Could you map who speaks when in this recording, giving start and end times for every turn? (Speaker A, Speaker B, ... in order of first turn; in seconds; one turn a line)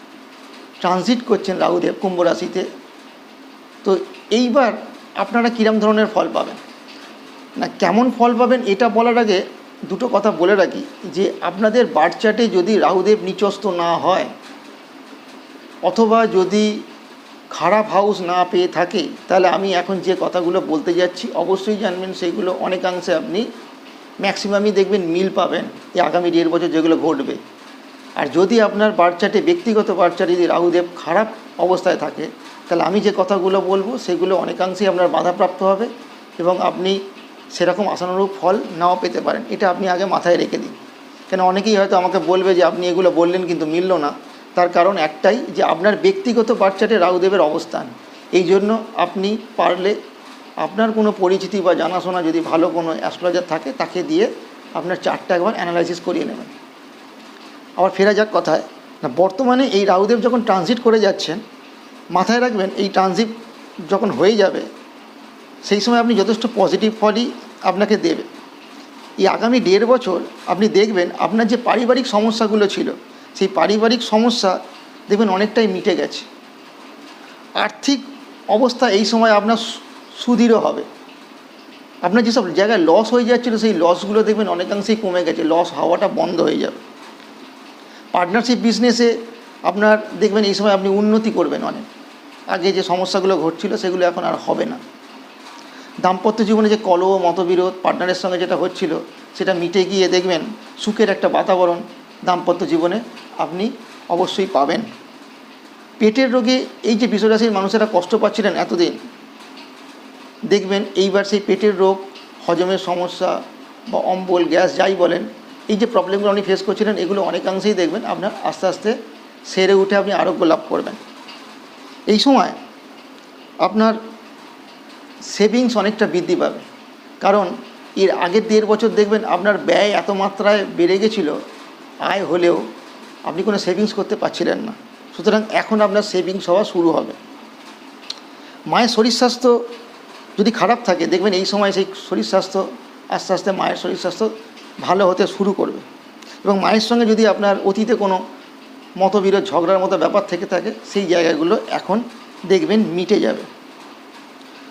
Speaker A: 0.8-2.6
Speaker A: 3.8-6.6
Speaker A: 7.6-14.3
Speaker A: 15.8-16.8
Speaker A: 17.5-23.5
Speaker A: 24.2-27.4
Speaker A: 28.2-37.0
Speaker A: 37.5-40.8
Speaker A: 41.3-49.9
Speaker A: 50.6-56.5
Speaker A: 57.8-61.4
Speaker A: 62.1-63.3
Speaker A: 63.9-64.7
Speaker A: 65.6-68.3
Speaker A: 69.2-74.6
Speaker A: 75.1-76.3
Speaker A: 77.6-79.6
Speaker A: 80.2-80.8
Speaker A: 82.0-86.8
Speaker A: 88.1-89.1
Speaker A: 89.7-91.9
Speaker A: 92.5-94.8
Speaker A: 96.0-104.9
Speaker A: 106.0-109.0
Speaker A: 110.5-119.0
Speaker A: 119.5-121.0
Speaker A: 122.1-122.6
Speaker A: 123.6-124.0
Speaker A: 125.3-126.6
Speaker A: 127.2-131.3
Speaker A: 132.0-132.6
Speaker A: 133.2-137.2
Speaker A: 138.7-139.6
Speaker A: 140.4-144.3
Speaker A: 144.8-145.8
Speaker A: 146.4-148.2
Speaker A: 149.0-153.5